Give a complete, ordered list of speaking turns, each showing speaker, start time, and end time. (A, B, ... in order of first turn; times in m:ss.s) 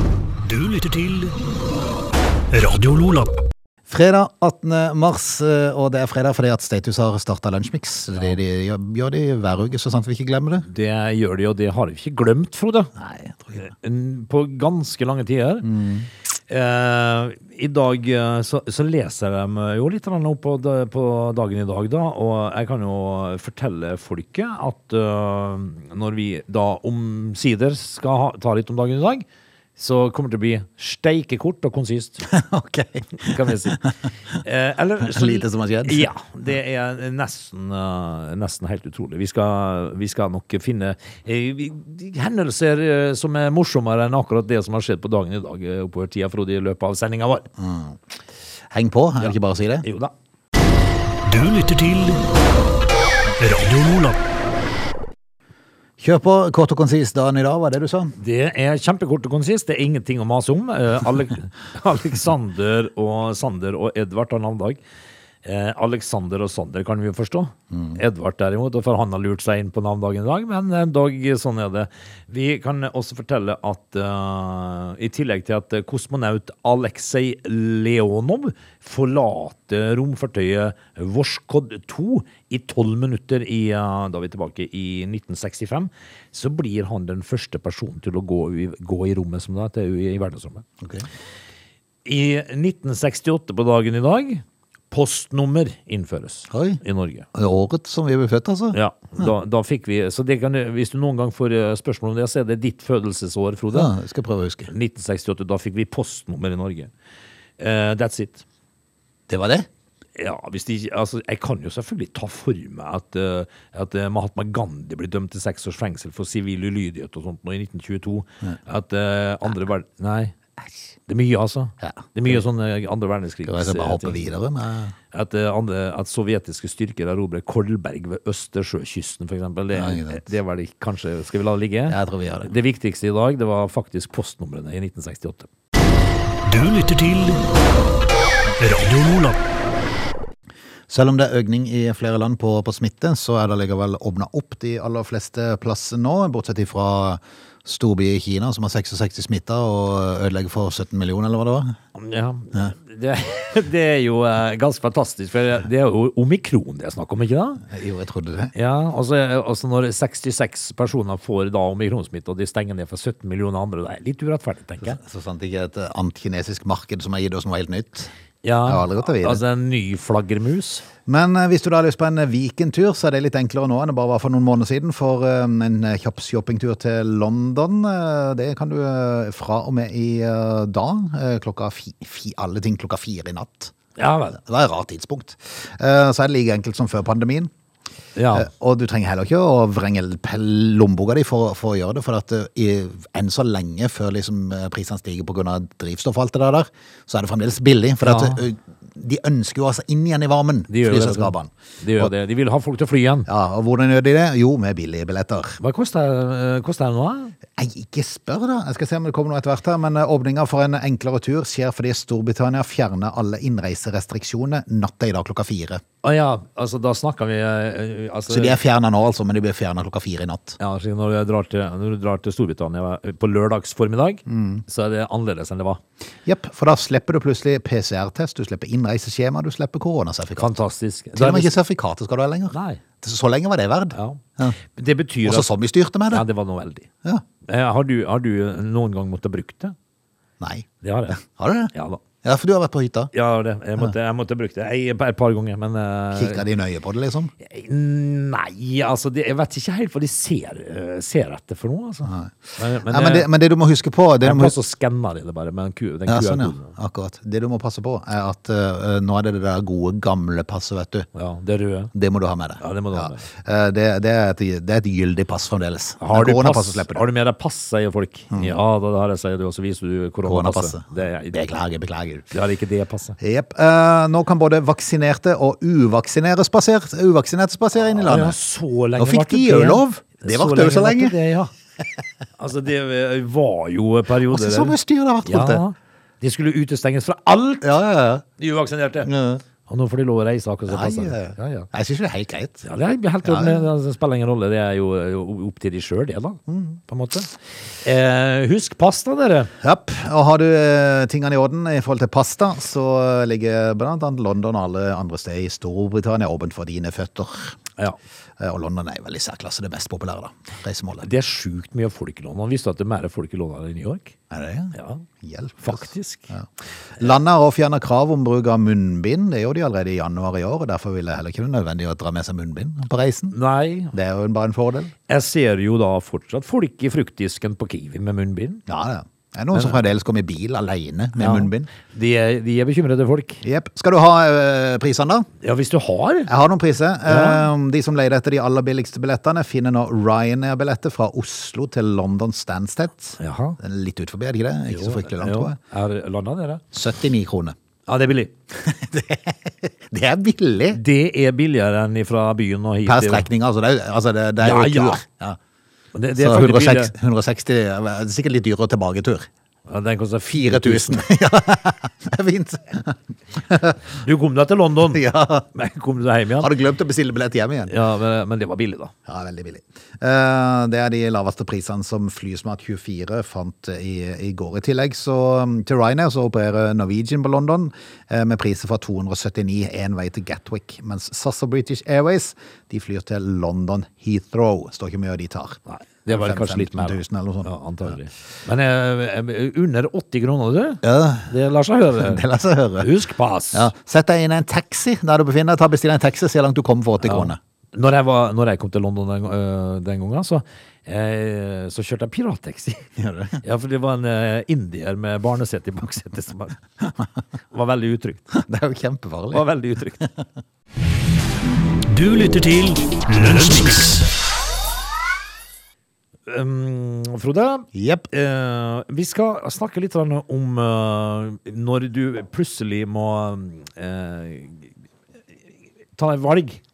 0:00.4-0:01.3 A
0:02.5-0:03.3 A
0:03.9-0:10.7 B
0:10.7-0:12.9 C
0:13.0-0:13.7 B
0:13.6-0:15.7 C
0:15.6-0:16.1 B
0:16.3-0:32.2 C
0:32.2-0:33.9 B
0:33.2-0:47.5 C
0:35.0-0:36.1 B
0:47.6-0:48.0 B
0:48.7-0:49.9 B
0:49.2-0:50.1 C
0:51.3-0:52.2 A
0:53.4-0:54.2 A
0:56.0-0:58.2 B
0:58.2-1:04.8 C
1:05.4-1:30.6 C
1:07.7-1:08.0 B
1:30.8-1:31.1 B
1:32.0-1:37.3 C
1:36.5-1:36.8 B
1:37.3-1:38.8 B
1:38.7-1:43.9 C
1:43.7-1:44.7 B
1:44.7-1:46.9 C
1:47.6-1:48.4 C
1:49.3-1:49.7 B
1:50.2-2:00.3 C
2:01.1-2:04.2 C
2:01.8-2:02.4 B
2:03.5-2:04.9 B
2:05.1-2:15.5 C
2:09.7-2:10.3 B
2:11.9-2:12.5 B
2:16.5-2:17.4 A
2:18.6-2:19.4 A
2:20.9-2:31.8 B
2:31.9-2:37.6 C
2:37.7-2:38.5 B
2:38.6-2:45.0 C
2:44.8-2:48.1 B
2:48.4-2:50.9 C
2:48.7-2:49.4 B
2:51.1-3:03.7 B
3:04.0-3:04.4 C
3:04.3-3:07.5 B
3:08.2-3:08.5 C
3:08.3-3:22.1 B
3:18.0-3:18.4 C
3:20.7-3:23.3 C
3:23.3-3:25.6 B
3:25.6-3:27.3 C
3:27.6-3:35.8 B
3:36.0-3:38.6 C
3:38.3-3:40.6 B
3:40.6-3:45.8 C
3:44.3-3:44.6 B
3:46.2-3:50.5 B
3:50.4-3:51.6 C
3:51.1-3:54.6 B
3:52.5-3:52.8 C
3:53.9-3:55.5 C
3:55.2-3:56.2 B
3:56.1-3:56.9 C
3:57.4-3:59.8 C
4:00.4-4:01.7 B
4:00.8-4:01.2 C
4:01.7-4:02.0 C
4:02.2-4:03.1 B
4:03.1-4:06.5 C
4:06.1-4:07.3 B
4:07.4-4:13.3 C
4:12.0-4:14.6 B
4:14.2-4:16.7 C
4:16.1-4:21.1 B
4:21.1-4:21.9 C
4:21.9-4:27.0 B
4:22.6-4:23.2 C
4:26.0-4:31.5 C
4:30.2-4:32.3 B
4:32.3-4:33.2 C
4:33.2-4:38.4 B
4:37.9-4:41.5 C
4:39.0-4:41.2 B
4:42.4-4:47.6 C
4:44.3-4:45.6 B
4:47.6-4:48.2 B
4:48.4-4:49.1 C
4:49.0-4:49.4 B
4:49.6-4:51.7 C
4:50.7-4:52.6 B
4:52.6-4:57.3 C
4:53.2-4:53.6 B
4:56.5-4:56.8 B
4:57.8-4:59.5 C
4:59.6-5:07.6 B
5:08.4-5:11.1 B
5:11.0-5:14.1 C
5:14.3-5:23.3 B
5:14.7-5:15.0 C
5:15.6-5:16.3 C
5:23.3-5:23.9 C
5:23.9-5:24.9 B
5:25.1-5:28.6 C
5:28.7-5:31.7 B
5:29.5-5:29.8 C
5:31.2-5:33.4 C
5:33.4-5:35.3 B
5:35.4-5:36.3 C
5:36.3-5:45.6 B
5:37.0-5:37.5 C
5:43.2-5:43.6 C
5:44.7-5:46.6 C
5:46.7-5:47.5 B
5:47.8-5:48.3 C
5:48.5-5:50.8 B
5:50.7-5:53.3 C
5:52.8-5:55.4 B
5:54.4-5:55.0 C
5:55.9-5:56.9 C
5:56.1-5:59.3 B
5:59.6-6:01.1 C
6:00.3-6:03.8 B
6:03.9-6:06.5 C
6:04.9-6:05.5 B
6:06.4-6:07.7 B
6:07.7-6:08.9 C
6:09.1-6:27.9 B
6:25.7-6:32.2 C
6:30.8-6:31.3 B
6:32.0-6:32.9 B
6:32.8-6:33.7 C
6:33.5-6:37.4 B
6:37.0-6:42.9 C
6:43.0-6:43.4 B
6:43.4-6:46.6 C
6:47.5-6:48.3 C
6:48.3-6:50.2 B
6:49.3-6:50.0 C
6:52.0-6:53.7 A
6:53.2-6:53.8 C
6:56.2-7:04.7 C
6:57.7-6:58.1 B
7:06.0-7:06.6 C